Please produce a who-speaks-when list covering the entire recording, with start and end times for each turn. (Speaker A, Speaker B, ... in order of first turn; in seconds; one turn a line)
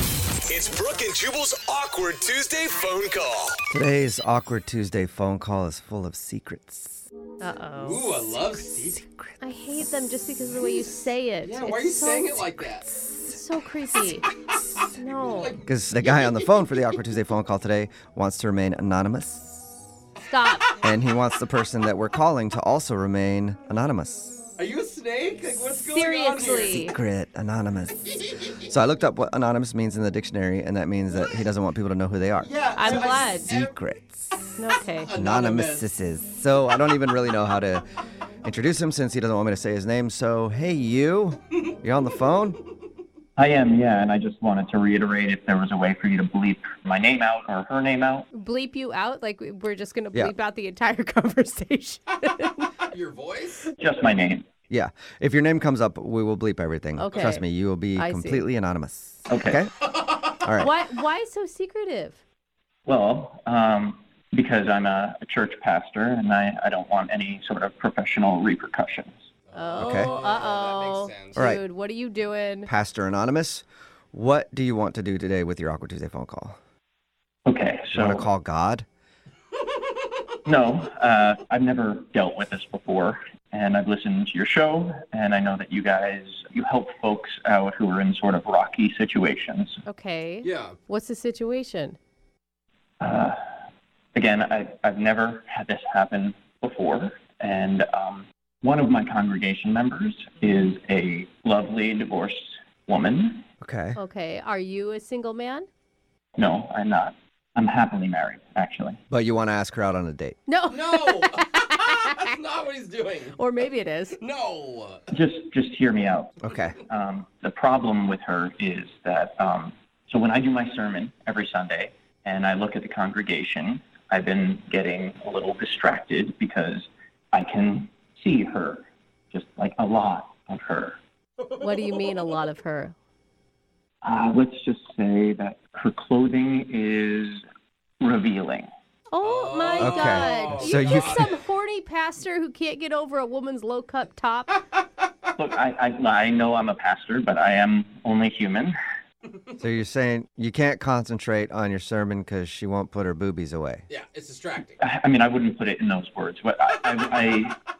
Speaker A: 0.4-3.6
Speaker B: 3.7-7.0
Speaker C: 7.4-8.2
Speaker D: 7.8-9.0
Speaker B: 8.8-9.8
Speaker C: 9.4-14.3
Speaker D: 11.4-12.9
Speaker C: 14.9-15.5
Speaker D: 15.0-16.5
Speaker B: 15.6-19.6
Speaker C: 20.2-20.7
Speaker B: 20.8-24.4
Speaker D: 24.6-26.8
Speaker C: 25.6-26.9
Speaker B: 26.6-28.0
Speaker B: 28.6-34.4
Speaker D: 32.4-33.6
Speaker C: 32.7-33.5
Speaker C: 34.6-35.1
Speaker D: 35.0-35.8
Speaker B: 35.1-37.8
Speaker B: 38.4-42.6
Speaker E: 43.4-48.3
Speaker C: 48.3-52.7
Speaker D: 52.9-53.7
Speaker E: 53.8-54.4
Speaker B: 54.7-59.7
Speaker C: 57.0-57.4
Speaker C: 57.9-58.5
Speaker E: 59.3-59.6
Speaker D: 59.8-60.4
Speaker B: 60.3-60.7
Speaker C: 60.6-62.2
Speaker E: 62.9-69.1
Speaker D: 69.5-71.5
Speaker C: 69.5-72.7
Speaker B: 69.8-70.1
Speaker B: 71.4-71.6
Speaker B: 72.7-76.6
Speaker E: 77.5-78.2
Speaker B: 77.9-78.8
Speaker E: 80.4-89.8
Speaker C: 89.8-92.0
Speaker D: 90.4-90.8
Speaker E: 93.0-93.4
Speaker E: 94.1-103.4
Speaker B: 103.6-104.0
Speaker C: 104.0-105.7
Speaker E: 106.4-109.0
Speaker B: 109.1-110.4
Speaker C: 110.5-112.2
Speaker D: 110.7-113.4
Speaker C: 113.4-114.2
Speaker D: 114.1-115.1
Speaker E: 115.1-131.0
Speaker B: 116.4-116.8
Speaker D: 131.4-132.2
Speaker C: 131.6-132.9
Speaker E: 134.0-137.4
Speaker E: 138.0-138.7
Speaker C: 139.1-144.6
Speaker D: 139.2-141.3
Speaker B: 139.8-141.3
Speaker E: 145.3-148.8
Speaker B: 149.6-153.8
Speaker D: 153.9-154.8
Speaker E: 154.8-157.6